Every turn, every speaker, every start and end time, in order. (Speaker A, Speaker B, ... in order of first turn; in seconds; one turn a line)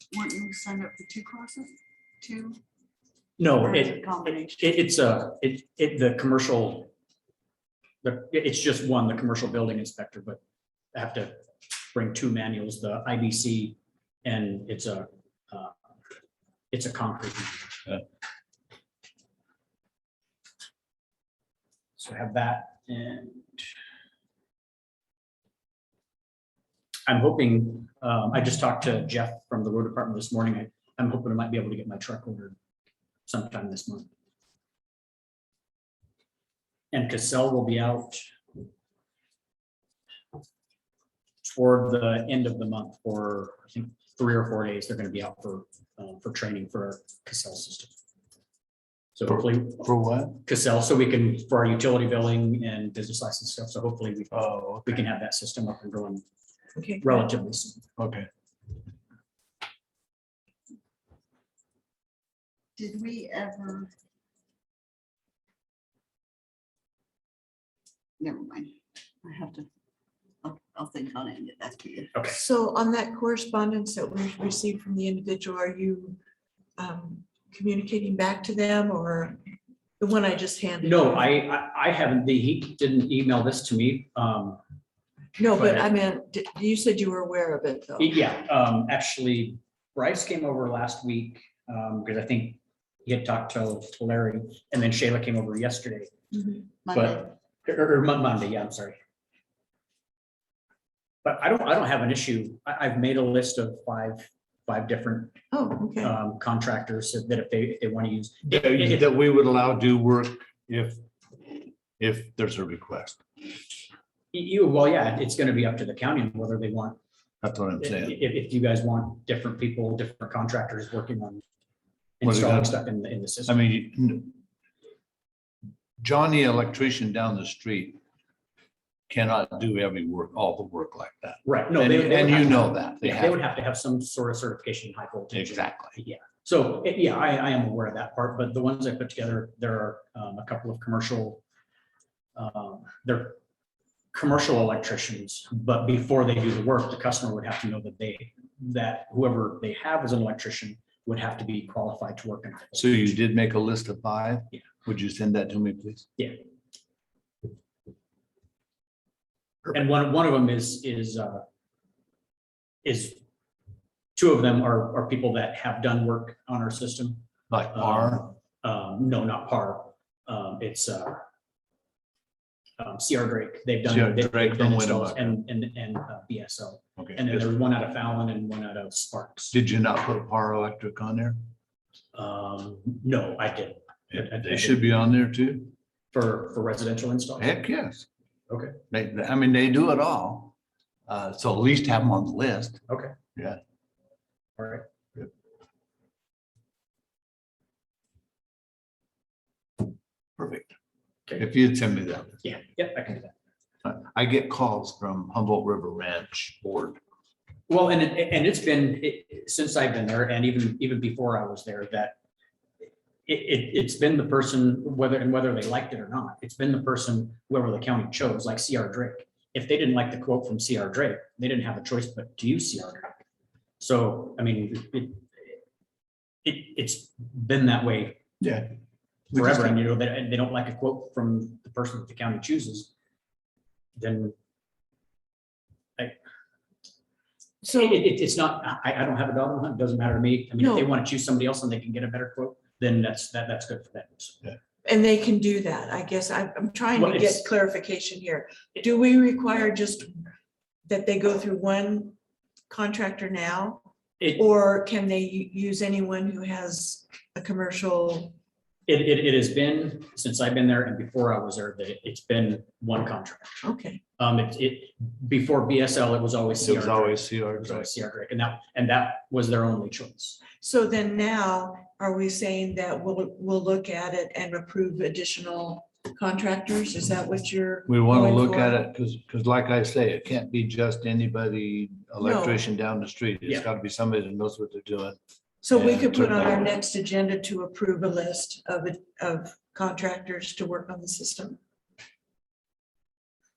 Speaker A: 0.1-2.6
Speaker B: 3.4-6.9
Speaker A: 3.6-4.8
Speaker B: 8.0-10.4
Speaker B: 10.9-15.7
Speaker B: 16.7-18.0
Speaker B: 22.0-23.6
Speaker B: 27.1-32.5
Speaker B: 33.2-34.1
Speaker B: 36.9-38.3
Speaker B: 41.4-47.9
Speaker B: 49.1-56.2
Speaker C: 49.3-50.4
Speaker C: 54.3-55.0
Speaker D: 56.8-57.2
Speaker B: 57.0-57.8
Speaker C: 58.0-58.3
Speaker A: 62.8-63.9
Speaker A: 68.2-69.7
Speaker A: 70.4-72.1
Speaker B: 72.1-72.4
Speaker D: 72.3-76.2
Speaker D: 76.8-79.4
Speaker D: 80.0-81.3
Speaker B: 80.8-84.6
Speaker D: 85.3-88.1
Speaker B: 85.5-85.9
Speaker B: 88.0-96.1
Speaker A: 96.8-97.2
Speaker B: 96.9-99.0
Speaker B: 101.2-105.4
Speaker D: 105.5-106.1
Speaker B: 106.0-109.0
Speaker C: 108.5-111.0
Speaker C: 112.0-113.2
Speaker B: 114.3-117.0
Speaker C: 117.4-118.2
Speaker B: 117.8-121.4
Speaker B: 122.2-123.6
Speaker C: 122.2-122.8
Speaker C: 123.5-124.4
Speaker C: 126.0-128.0
Speaker C: 129.1-133.4
Speaker B: 131.4-141.4
Speaker C: 135.3-135.9
Speaker B: 142.3-143.4
Speaker B: 144.1-153.1
Speaker C: 152.7-156.1
Speaker B: 159.7-161.4
Speaker B: 162.8-163.2
Speaker B: 164.1-171.2
Speaker C: 167.5-168.3
Speaker B: 172.8-179.6
Speaker C: 173.9-175.4
Speaker C: 177.0-177.5
Speaker C: 179.5-181.4
Speaker B: 182.1-184.8
Speaker C: 184.1-185.7
Speaker B: 186.1-187.6
Speaker C: 187.4-188.1
Speaker B: 188.5-188.8
Speaker C: 188.9-190.5
Speaker C: 191.1-192.8
Speaker B: 192.9-193.1
Speaker C: 193.3-193.6
Speaker B: 194.6-194.8
Speaker C: 200.4-200.7
Speaker C: 201.4-202.4
Speaker B: 202.4-203.3
Speaker C: 203.8-207.0
Speaker B: 207.7-212.2
Speaker B: 213.3-223.2
Speaker B: 223.8-225.2
Speaker B: 226.4-228.2
Speaker C: 228.4-228.7
Speaker C: 229.3-229.8
Speaker B: 229.3-232.9
Speaker B: 233.9-234.3
Speaker D: 237.6-238.0
Speaker B: 237.7-244.4
Speaker D: 240.6-240.9
Speaker D: 244.8-250.2
Speaker B: 246.9-247.5
Speaker D: 250.8-252.1
Speaker D: 252.7-258.3
Speaker B: 258.9-263.6
Speaker D: 263.6-264.0
Speaker B: 264.2-270.4
Speaker C: 266.6-267.9
Speaker D: 270.6-278.8
Speaker C: 277.9-285.2
Speaker D: 282.2-282.6
Speaker D: 285.6-291.6
Speaker C: 285.7-286.6